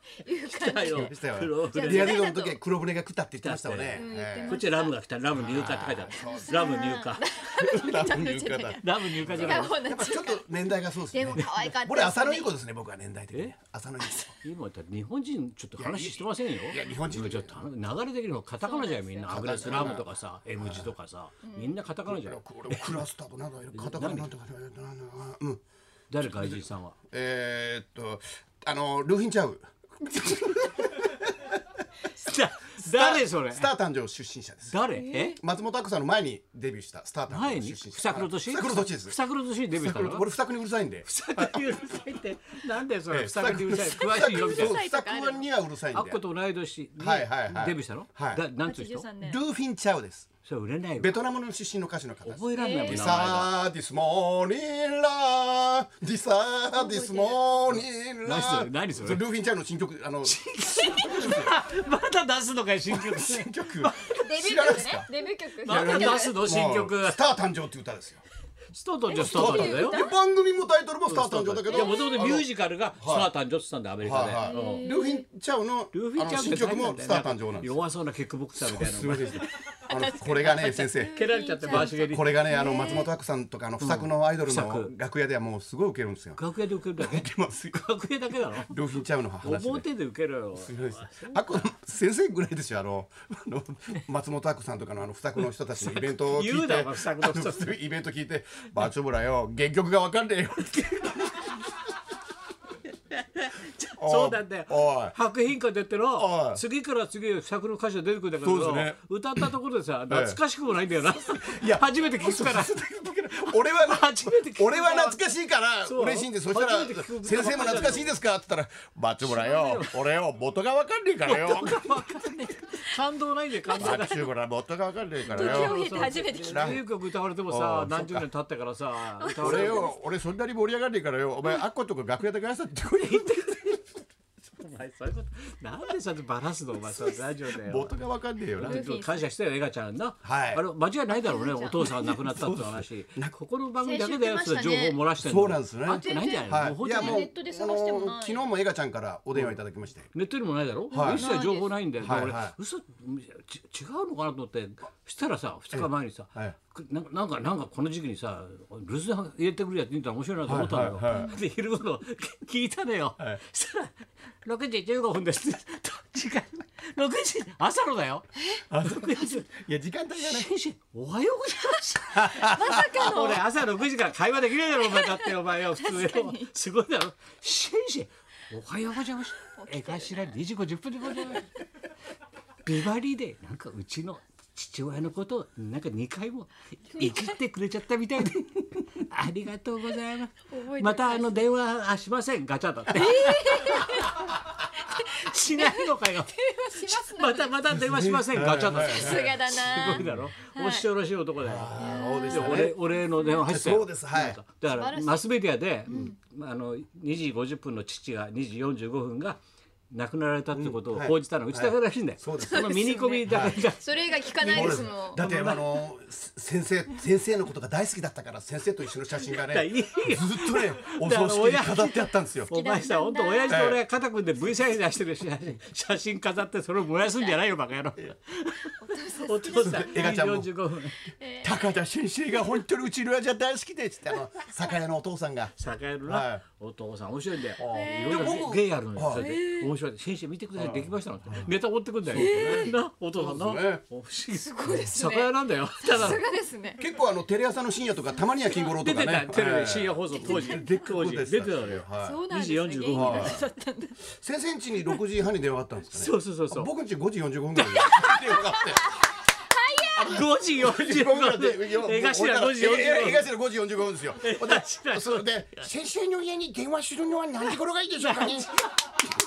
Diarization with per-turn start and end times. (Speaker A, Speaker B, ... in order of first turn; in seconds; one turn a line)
Speaker A: 0.2-1.1
Speaker B: 0.5-2.2
Speaker C: 0.9-4.6
Speaker A: 1.7-2.6
Speaker B: 3.4-7.3
Speaker A: 3.9-5.0
Speaker C: 5.3-6.6
Speaker A: 5.9-10.4
Speaker C: 7.5-14.3
Speaker B: 8.8-9.8
Speaker A: 11.1-12.5
Speaker B: 14.4-23.0
Speaker C: 15.8-17.6
Speaker A: 18.6-20.1
Speaker C: 19.3-20.9
Speaker A: 21.4-21.8
Speaker C: 22.1-25.6
Speaker B: 23.8-24.3
Speaker B: 26.1-26.9
Speaker C: 26.2-31.3
Speaker B: 32.2-33.7
Speaker C: 32.8-34.8
Speaker B: 34.7-35.4
Speaker A: 34.9-35.4
Speaker C: 35.4-39.2
Speaker B: 37.3-40.2
Speaker C: 39.8-41.7
Speaker B: 41.1-44.8
Speaker C: 43.1-46.2
Speaker A: 44.2-45.4
Speaker B: 45.9-49.1
Speaker C: 47.0-48.4
Speaker A: 48.6-49.4
Speaker C: 49.2-50.3
Speaker B: 50.5-51.2
Speaker C: 51.0-61.5
Speaker B: 52.2-53.5
Speaker A: 52.5-53.3
Speaker A: 56.8-57.4
Speaker B: 57.7-59.2
Speaker B: 60.2-64.2
Speaker C: 62.9-65.1
Speaker A: 64.2-66.4
Speaker B: 65.7-67.2
Speaker C: 65.7-68.2
Speaker B: 68.7-70.0
Speaker A: 69.1-70.2
Speaker C: 69.2-73.3
Speaker B: 71.1-74.8
Speaker A: 71.7-72.2
Speaker C: 74.0-77.8
Speaker A: 74.4-75.2
Speaker B: 75.9-79.4
Speaker C: 78.6-81.2
Speaker A: 79.9-83.1
Speaker B: 81.2-82.4
Speaker C: 81.7-86.4
Speaker B: 83.8-84.9
Speaker B: 86.4-88.7
Speaker C: 87.0-87.9
Speaker C: 88.5-89.9
Speaker B: 89.4-91.7
Speaker C: 90.6-101.5
Speaker B: 95.8-97.8
Speaker B: 100.9-101.6
Speaker B: 103.1-115.2
Speaker C: 104.0-105.2
Speaker C: 106.2-106.6
Speaker C: 108.4-109.5
Speaker C: 110.1-110.4
Speaker C: 111.2-122.0
Speaker B: 115.8-118.1
Speaker B: 119.2-120.0
Speaker B: 121.2-124.3
Speaker A: 122.4-122.8
Speaker C: 123.8-125.8
Speaker B: 125.3-129.9
Speaker A: 125.3-126.8
Speaker C: 126.4-126.8
Speaker C: 127.5-128.3
Speaker A: 129.2-130.0
Speaker C: 129.4-133.8
Speaker B: 133.0-133.9
Speaker B: 134.6-137.9
Speaker C: 137.0-138.8
Speaker B: 138.6-147.3
Speaker A: 138.7-139.2
Speaker C: 140.2-140.6
Speaker A: 141.1-141.8
Speaker C: 141.8-143.3
Speaker A: 143.8-145.0
Speaker C: 145.2-150.1
Speaker A: 145.9-148.5
Speaker B: 150.1-169.5
Speaker C: 150.9-151.3
Speaker A: 150.9-151.7
Speaker C: 152.0-152.6
Speaker C: 155.7-156.6
Speaker C: 160.4-161.4
Speaker A: 161.1-161.4
Speaker C: 168.7-170.5
Speaker B: 170.2-181.5
Speaker C: 172.2-173.0
Speaker A: 172.5-173.5
Speaker A: 174.8-176.5
Speaker A: 179.6-180.3
Speaker A: 181.2-181.6
Speaker B: 182.7-194.3
Speaker A: 187.0-187.2
Speaker A: 190.5-191.4
Speaker A: 192.9-197.6
Speaker B: 194.9-201.7
Speaker C: 197.7-199.3
Speaker A: 198.8-200.9
Speaker C: 199.9-200.2
Speaker C: 201.4-202.8
Speaker A: 201.8-203.5
Speaker B: 202.3-213.8
Speaker C: 203.4-204.4
Speaker A: 204.7-205.3
Speaker A: 205.9-206.2
Speaker C: 210.5-213.6
Speaker A: 212.4-215.2
Speaker B: 214.4-215.7
Speaker C: 214.4-222.5
Speaker B: 219.4-231.0
Speaker A: 222.5-223.6
Speaker C: 223.5-223.8
Speaker A: 228.8-230.1
Speaker C: 229.5-230.5
Speaker A: 231.2-231.7
Speaker C: 231.4-235.5
Speaker B: 235.6-246.2
Speaker C: 236.1-236.4
Speaker C: 237.6-239.2
Speaker A: 237.7-238.4
Speaker A: 239.2-239.7
Speaker C: 240.6-241.5
Speaker C: 242.1-243.8
Speaker A: 242.1-242.7
Speaker A: 244.3-246.8
Speaker C: 246.8-252.2
Speaker B: 248.8-253.4
Speaker A: 250.2-250.7
Speaker A: 252.0-254.0
Speaker C: 252.9-253.4
Speaker C: 254.2-258.9
Speaker B: 256.0-256.7
Speaker A: 257.8-260.2
Speaker C: 259.9-268.5
Speaker B: 260.1-263.3
Speaker B: 264.2-265.7
Speaker B: 267.4-269.0